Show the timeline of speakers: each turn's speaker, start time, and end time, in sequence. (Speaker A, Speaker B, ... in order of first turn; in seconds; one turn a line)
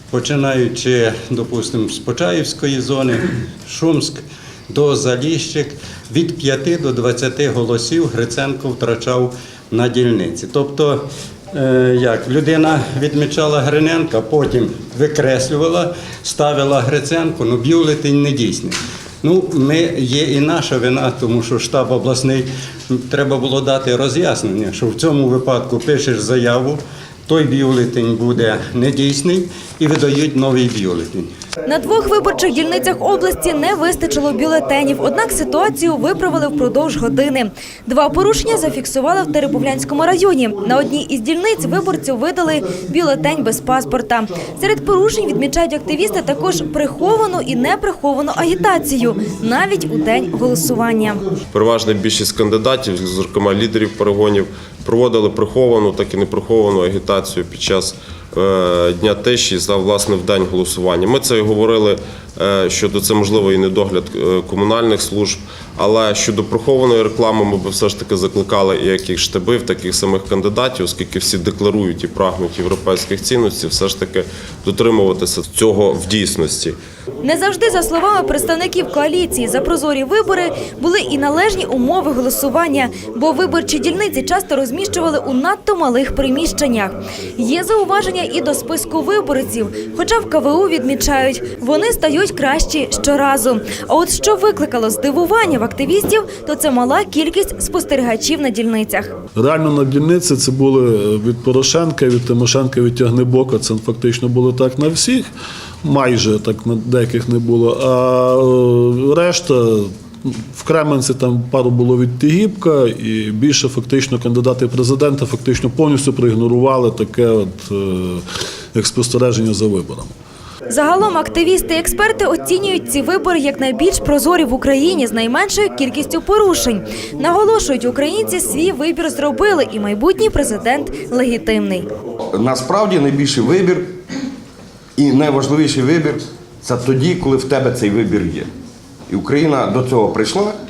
Speaker A: 0.1-31.3
Speaker B: 31.6-51.2
Speaker C: 51.5-76.8
Speaker B: 77.2-99.1
Speaker D: 99.3-105.3
Speaker D: 105.8-120.1
Speaker B: 120.7-131.9
Speaker E: 132.3-133.9
Speaker E: 135.0-138.5
Speaker E: 139.1-140.5